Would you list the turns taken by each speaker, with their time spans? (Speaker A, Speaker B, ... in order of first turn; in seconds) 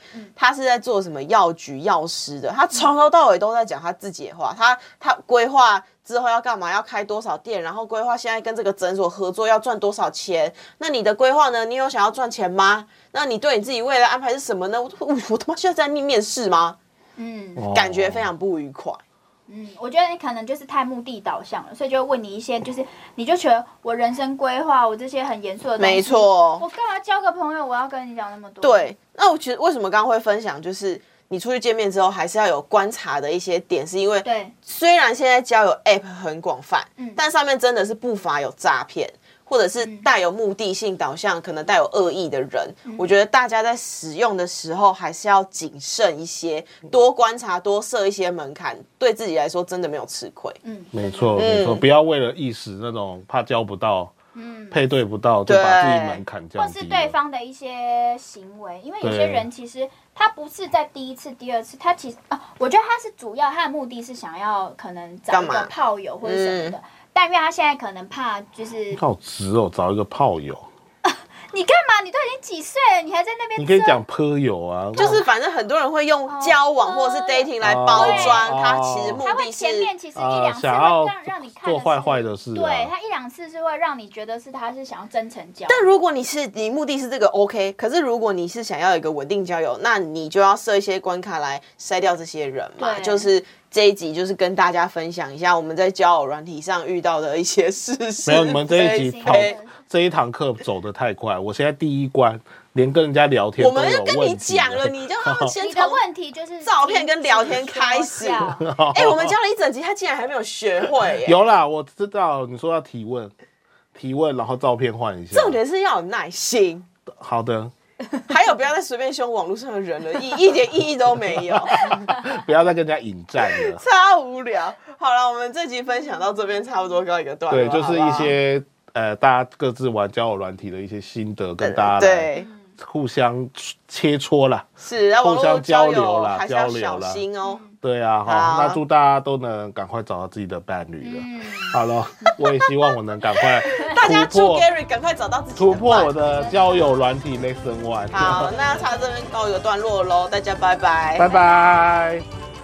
Speaker A: 0.4-16.8, 17.7-19.0, 25.8-26.6, 28.6-50.6, 51.4-51.9, 55.5-56.2, 65.3-65.7, 66.2-66.8, 75.0-79.9, 85.7-99.6, 103.6-106.0, 106.6-111.4, 115.3-116.9, 118.3-122.0, 123.4-128.3, 131.6-132.5, 134.8-137.6, 138.2-138.8, 143.4-146.1, 148.1-151.3
Speaker B: 17.2-17.6, 19.5-28.9, 34.2-34.5, 39.8-40.1, 50.6-51.4, 54.4-54.8, 56.6-69.0, 71.0-74.0, 75.0-75.2, 76.3-78.5, 79.2-86.0, 92.8-93.3, 98.7-99.8, 105.6-108.7, 132.3-132.8, 137.4-137.8, 141.0-142.4, 146.2-147.0
Speaker C: 17.6-18.3, 50.9-54.1, 54.7-57.1, 59.0-59.5, 68.9-70.7, 73.6-75.2, 77.6-79.2, 80.2-82.9, 98.3-105.5, 108.6-109.3, 111.2-113.3, 114.0-115.6, 117.2-117.7, 121.7-123.8, 127.5-134.7, 135.2-137.2, 137.8-144.7, 145.6-148.6, 151.2-152.2